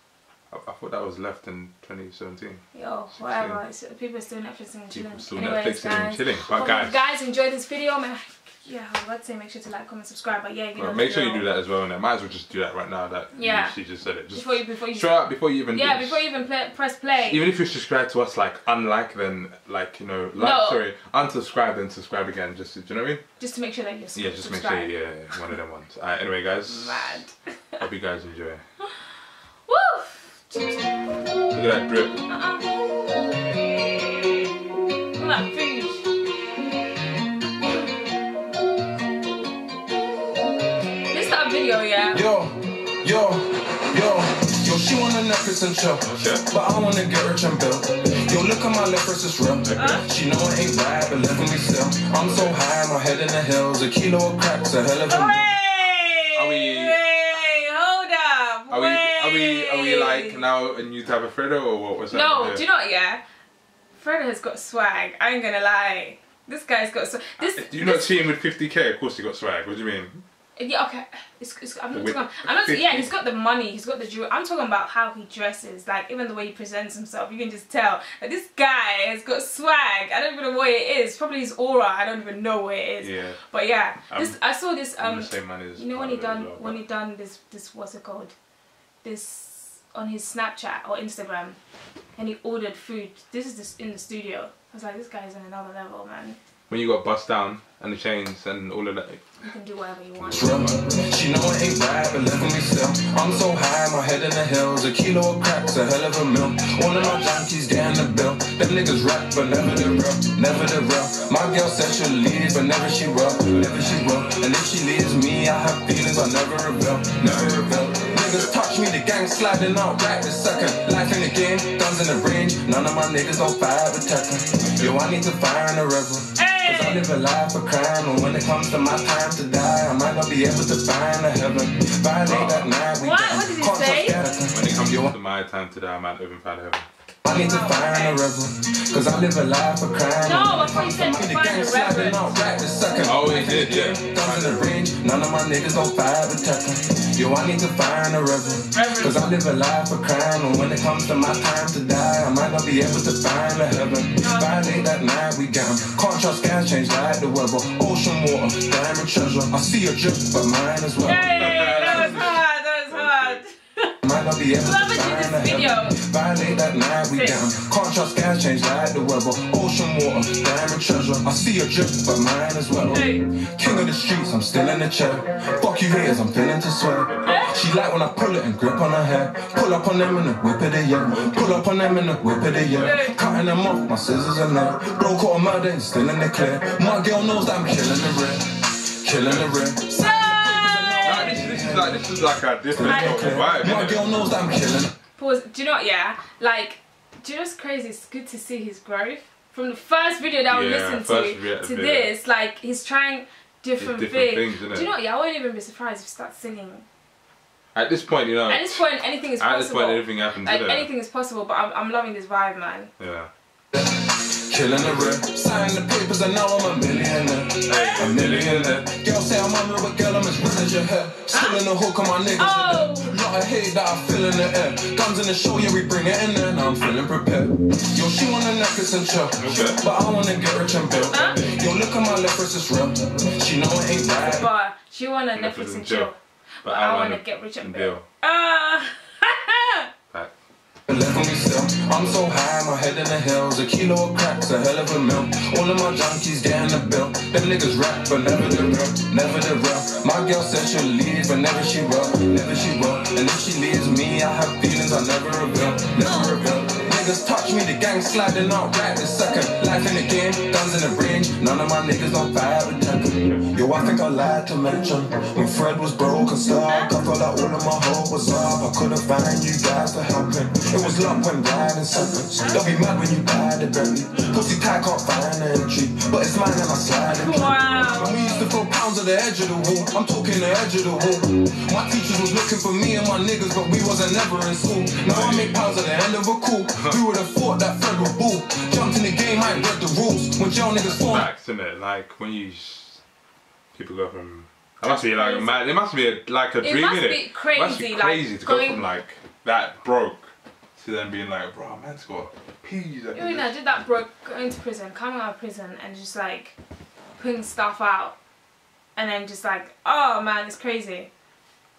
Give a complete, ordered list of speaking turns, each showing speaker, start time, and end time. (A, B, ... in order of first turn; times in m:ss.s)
0:00.5-0:02.6 A
0:02.7-0:11.5 B
0:03.2-0:03.6 A
0:04.9-0:07.0 A
0:10.8-0:16.2 A
0:13.3-0:13.8 B
0:14.3-0:17.5 B
0:17.2-0:23.2 A
0:20.4-0:20.8 B
0:23.4-0:24.9 B
0:24.2-0:27.2 A
0:26.6-0:27.9 B
0:27.8-0:28.6 A
0:29.7-0:30.9 B
0:31.5-0:32.2 A
0:32.3-0:32.7 B
0:35.2-0:36.1 B
0:41.1-0:42.2 B
0:42.1-0:55.5 C
0:46.0-0:46.4 A
0:49.6-0:50.0 A
0:49.8-0:50.1 B
0:52.2-0:52.5 A
0:55.1-1:00.5 B
0:56.4-0:57.0 A
0:58.7-1:02.6 A
1:02.1-1:03.2 B
1:04.0-1:08.3 B
1:07.4-1:10.2 A
1:10.6-1:28.3 B
1:11.9-1:13.1 A
1:23.0-1:23.4 A
1:24.1-1:24.4 A
1:25.0-1:26.8 A
1:29.0-1:31.6 B
1:32.2-1:36.4 B
1:36.7-1:39.2 A
1:39.4-1:40.7 B
1:40.2-1:40.8 A
1:40.3-2:15.1 C
1:57.2-1:58.5 A
2:04.6-2:05.0 A
2:06.4-2:07.1 B
2:12.2-2:12.7 A
2:13.0-2:14.2 B
2:14.5-2:16.9 A
2:17.2-2:42.3 C
2:17.3-2:18.3 B
2:20.2-2:22.4 B
2:23.0-2:24.8 A
2:28.6-2:29.2 B
2:34.2-2:34.7 B
2:41.0-2:43.9 B
2:41.3-2:43.4 A
2:44.0-3:12.1 C
2:44.6-2:46.0 B
2:47.1-2:47.4 B
2:52.9-2:53.2 B
2:57.2-2:57.6 B
3:01.1-3:01.6 A
3:02.8-3:03.2 B
3:09.2-3:09.5 A
3:09.9-3:11.4 B
3:11.0-3:14.0 A
3:12.7-3:14.9 C
3:12.8-3:13.5 B
3:15.2-3:26.8 B
3:20.5-3:22.1 A
3:23.8-3:24.9 A
3:27.8-3:28.8 A
3:28.5-3:32.9 B
3:29.4-3:30.9 A
3:33.0-3:33.3 A
3:33.7-3:54.5 C
3:34.7-3:35.2 A
3:37.7-3:38.8 A
3:37.7-3:38.1 B
3:41.3-3:41.7 B
3:42.4-3:43.2 B
3:49.4-3:49.8 A
3:51.1-3:51.4 B
3:54.2-3:59.9 B
3:55.3-3:56.1 A
3:56.6-3:58.0 A
4:00.9-4:51.3 C
4:15.6-4:16.4 B
4:26.5-4:26.9 B
4:32.4-4:32.8 B
4:34.1-4:34.5 B
4:37.0-4:38.5 B
4:45.0-4:45.7 A
4:50.8-4:53.0 A
4:53.8-5:03.5 A
4:54.8-4:55.5 B
4:56.6-4:58.8 B
5:03.1-5:06.6 B
5:07.2-5:08.2 B
5:09.0-5:11.1 B